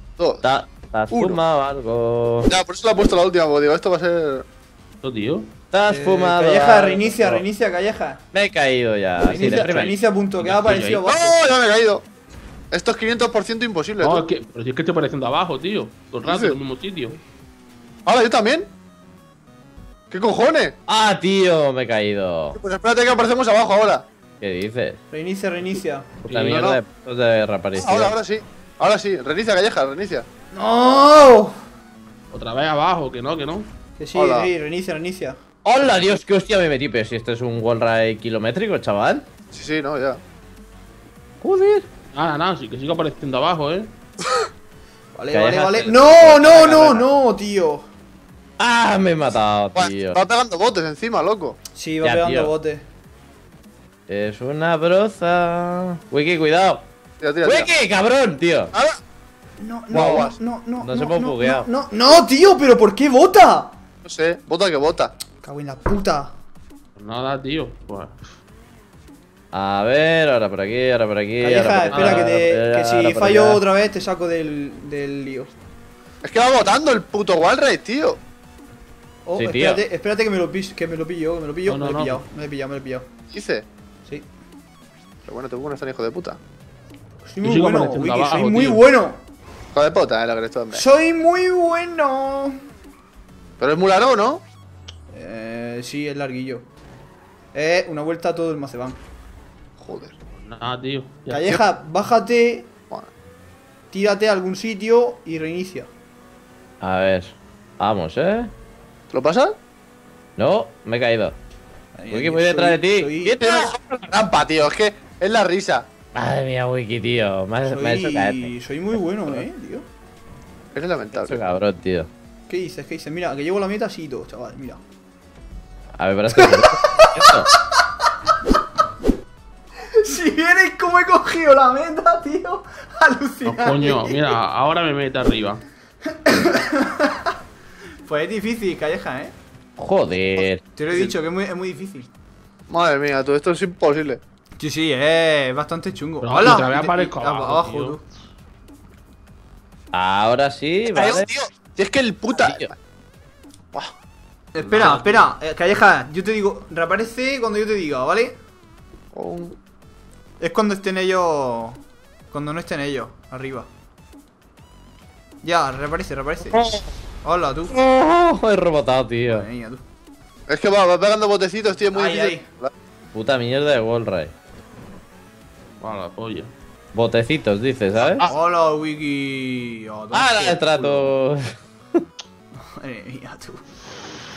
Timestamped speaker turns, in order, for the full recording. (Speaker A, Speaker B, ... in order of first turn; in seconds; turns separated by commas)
Speaker A: 0.2-0.4, Speaker B: 0.4-2.5, Speaker A: 1.1-1.4, Speaker A: 2.5-4.4, Speaker C: 5.0-5.5, Speaker B: 5.7-7.4, Speaker D: 5.9-8.2, Speaker B: 8.3-9.9, Speaker D: 9.2-11.4, Speaker C: 9.4-11.0, Speaker A: 11.0-12.0, Speaker A: 12.7-14.2, Speaker C: 14.0-17.2, Speaker A: 16.2-16.6, Speaker A: 18.1-18.7, Speaker A: 20.1-20.7, Speaker B: 20.9-22.6, Speaker A: 22.6-24.1, Speaker B: 24.4-25.0, Speaker D: 25.1-26.1, Speaker B: 26.2-28.1, Speaker C: 26.3-26.6, Speaker A: 26.3-26.8, Speaker A: 27.7-30.2, Speaker D: 30.5-31.5, Speaker C: 32.3-33.7, Speaker D: 34.0-35.4, Speaker A: 34.1-34.5, Speaker B: 35.6-39.2, Speaker A: 39.5-40.2, Speaker B: 41.4-41.9, Speaker C: 42.1-43.9, Speaker D: 45.1-47.9, Speaker B: 45.3-47.1, Speaker B: 48.6-50.2, Speaker A: 49.7-51.6, Speaker D: 51.8-52.9, Speaker B: 52.0-52.5, Speaker B: 54.1-56.8, Speaker A: 57.2-57.7, Speaker B: 57.4-58.7, Speaker A: 58.7-59.0, Speaker D: 59.6-63.8, Speaker A: 59.9-60.4, Speaker B: 59.9-61.7, Speaker A: 64.0-65.1, Speaker D: 65.4-66.3, Speaker C: 67.0-68.3, Speaker B: 69.5-73.6, Speaker D: 71.4-75.5, Speaker C: 71.9-72.3, Speaker A: 76.2-78.2, Speaker D: 79.2-83.0, Speaker B: 79.3-79.8, Speaker C: 81.7-82.2, Speaker A: 83.3-83.7, Speaker A: 85.2-86.4, Speaker D: 87.3-89.2, Speaker C: 87.4-88.8, Speaker A: 89.7-90.8, Speaker D: 90.7-92.5, Speaker A: 93.6-94.4, Speaker D: 95.1-96.7, Speaker D: 97.5-99.0, Speaker A: 99.8-100.2, Speaker C: 100.4-101.5, Speaker D: 101.3-102.7, Speaker D: 103.9-105.9, Speaker B: 106.8-108.5, Speaker A: 109.1-109.5, Speaker B: 110.4-111.3, Speaker D: 111.9-113.4, Speaker B: 112.1-113.8, Speaker A: 113.4-115.9, Speaker B: 116.1-119.4, Speaker D: 117.6-119.8, Speaker A: 120.7-121.4, Speaker B: 121.1-122.1, Speaker D: 122.5-124.8, Speaker B: 126.0-127.5, Speaker D: 126.3-127.3, Speaker D: 130.0-134.3, Speaker C: 133.4-135.6, Speaker D: 136.1-137.2, Speaker D: 138.0-139.3, Speaker B: 139.8-140.6, Speaker A: 140.4-141.1, Speaker D: 140.7-142.1, Speaker A: 142.7-144.2, Speaker D: 144.6-148.0, Speaker C: 146.2-148.0, Speaker B: 149.9-151.3, Speaker A: 150.9-152.7, Speaker B: 152.3-152.7, Speaker D: 154.5-158.3, Speaker C: 154.6-155.3, Speaker A: 159.1-159.6, Speaker D: 160.4-161.8, Speaker D: 162.3-163.7, Speaker D: 165.4-166.6, Speaker B: 166.5-166.8, Speaker D: 167.2-167.8, Speaker B: 167.7-169.5, Speaker D: 169.2-169.8, Speaker A: 170.5-172.7, Speaker D: 171.9-172.4, Speaker B: 173.1-174.3, Speaker C: 175.8-176.5, Speaker B: 176.9-178.2, Speaker D: 178.2-181.1, Speaker B: 180.1-181.4, Speaker D: 182.7-183.6